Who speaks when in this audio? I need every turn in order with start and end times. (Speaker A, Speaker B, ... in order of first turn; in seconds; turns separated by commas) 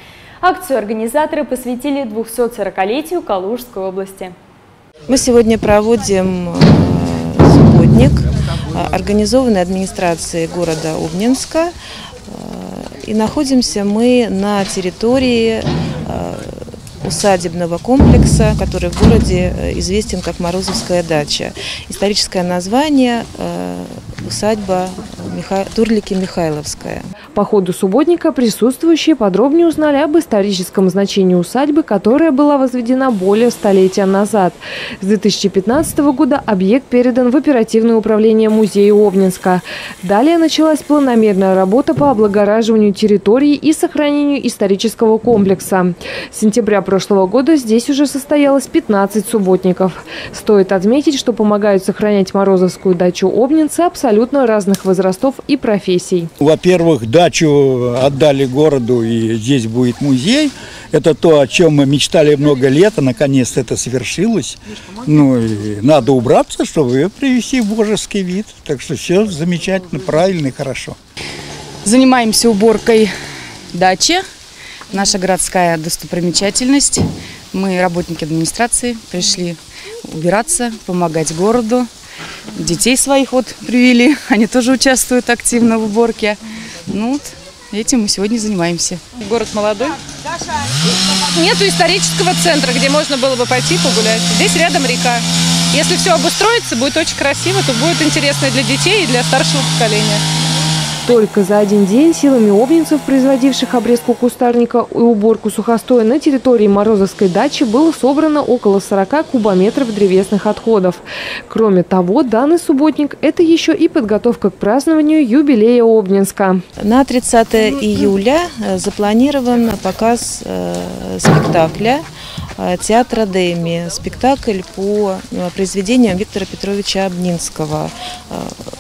Speaker A: 0.4-4.3, Speaker B: 5.1-11.7, Speaker B: 12.3-27.1, Speaker C: 27.4-56.3, Speaker D: 56.4-71.0, Speaker E: 71.8-73.1, Speaker E: 73.7-74.2, Speaker E: 74.9-81.9, Speaker E: 82.5-89.1, Speaker F: 89.1-90.0, Speaker F: 91.3-100.2, Speaker C: 101.0-116.6, Speaker B: 116.8-122.0, Speaker B: 122.6-128.6